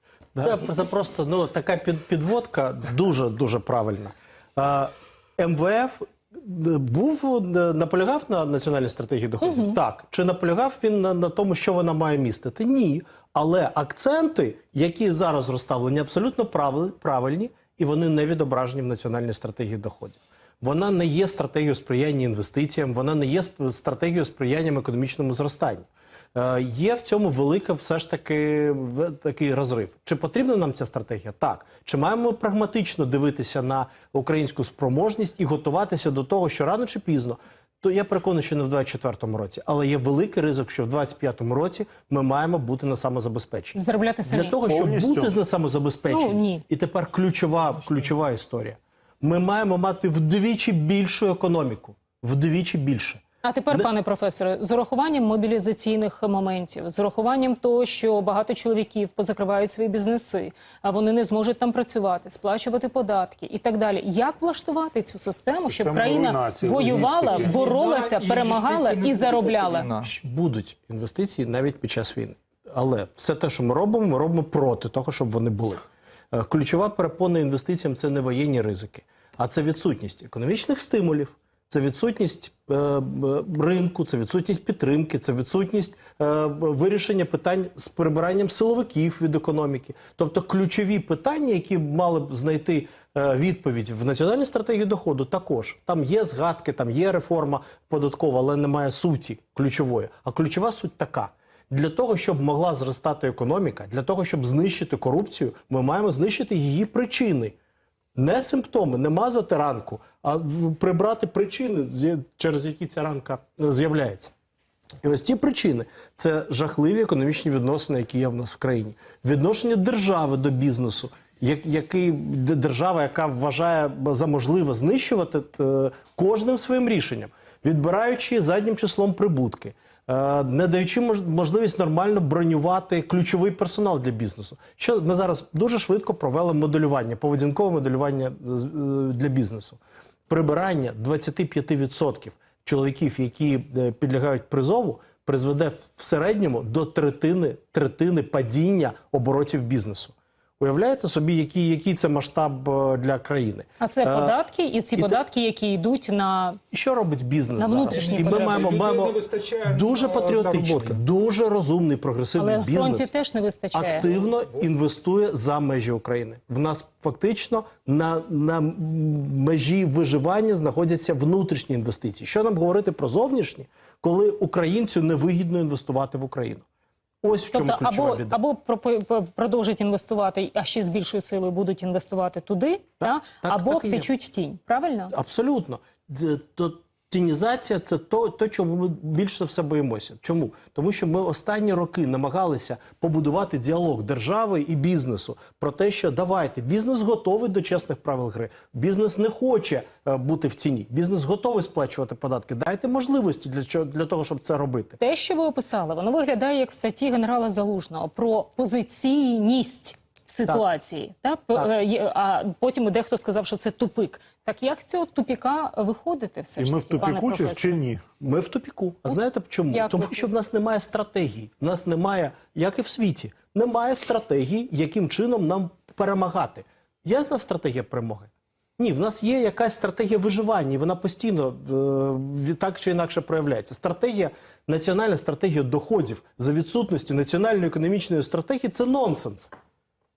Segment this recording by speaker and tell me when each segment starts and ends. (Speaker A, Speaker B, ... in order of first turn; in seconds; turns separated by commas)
Speaker A: 0.3-53.9, Speaker B: 9.4-9.8, Speaker B: 43.7-44.6, Speaker C: 44.7-45.4, Speaker B: 46.1-46.6, Speaker B: 53.4-70.0, Speaker C: 65.7-70.1, Speaker A: 70.0-107.5, Speaker A: 108.2-114.3, Speaker A: 115.0-154.4, Speaker B: 153.8-156.6, Speaker A: 156.7-163.1, Speaker B: 157.6-158.7, Speaker C: 158.0-160.9, Speaker B: 162.4-164.1, Speaker A: 163.7-176.6, Speaker A: 177.2-178.4, Speaker B: 177.5-185.1, Speaker A: 183.0-184.1, Speaker A: 185.1-205.0, Speaker B: 205.0-217.8, Speaker C: 216.6-218.0, Speaker A: 218.2-239.5, Speaker B: 219.7-220.2